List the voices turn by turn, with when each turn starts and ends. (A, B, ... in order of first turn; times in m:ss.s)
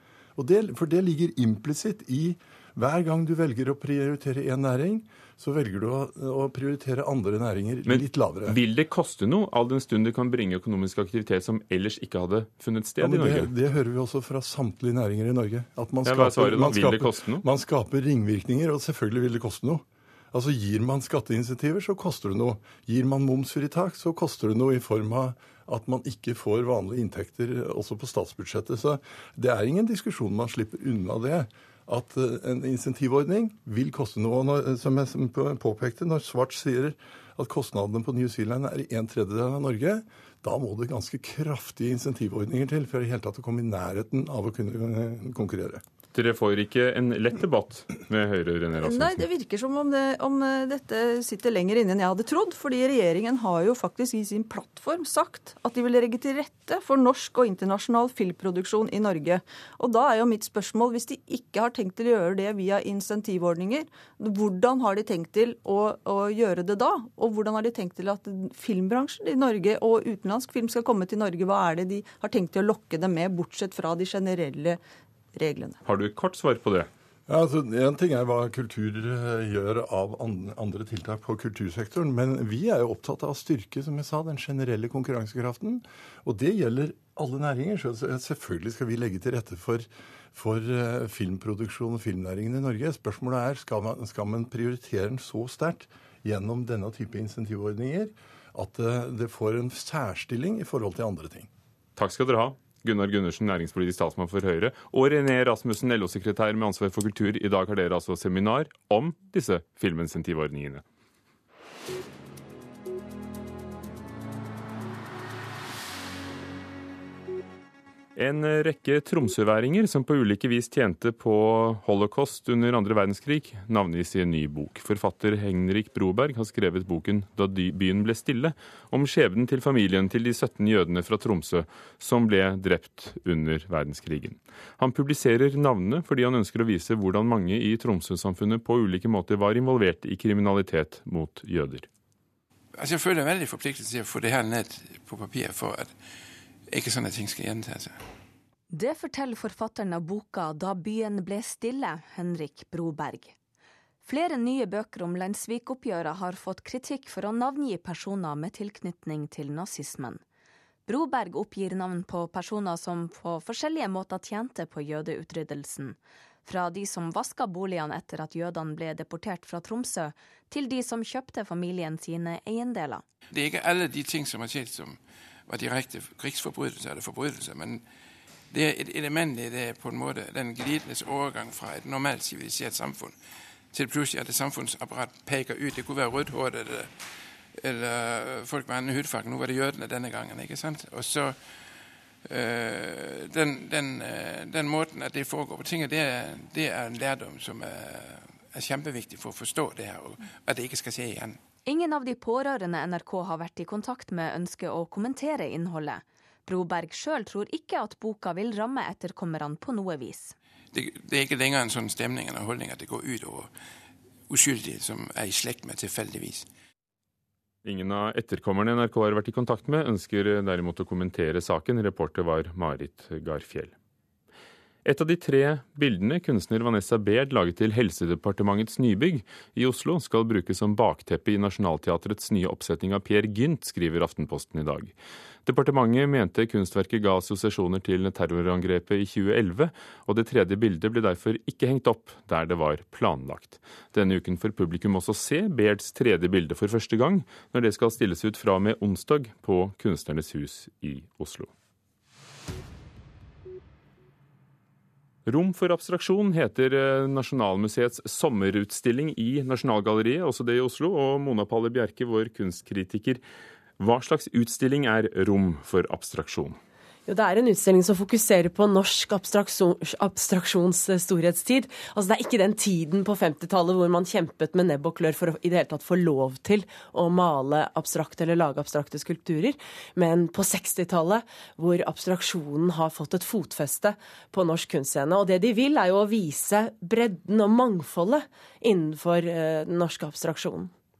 0:00.4-0:08.6 A
0:07.8-0:13.5 B
0:13.0-0:45.8 A
0:16.0-0:17.4 B
0:46.1-0:49.2 B
0:48.8-1:14.8 C
1:15.3-1:15.8 C
1:15.8-1:16.9 B
1:17.3-1:41.5 A
1:42.0-1:50.8 B
1:58.2-2:21.9 B
2:22.7-2:26.0 D
2:26.7-2:28.0 D
2:28.7-2:33.3 E
2:34.0-2:40.2 E
2:40.9-2:53.0 E
2:53.3-2:57.8 D
2:58.5-3:03.2 D
3:03.7-3:11.4 D
3:12.2-3:21.4 D
3:21.6-3:30.3 E
3:30.7-3:33.5 D
3:34.3-3:36.5 D
3:37.6-3:43.7 B
3:44.8-3:54.9 B
3:55.4-4:11.5 B
4:15.3-4:23.2 B
4:23.8-4:26.6 B
4:27.1-4:50.7 F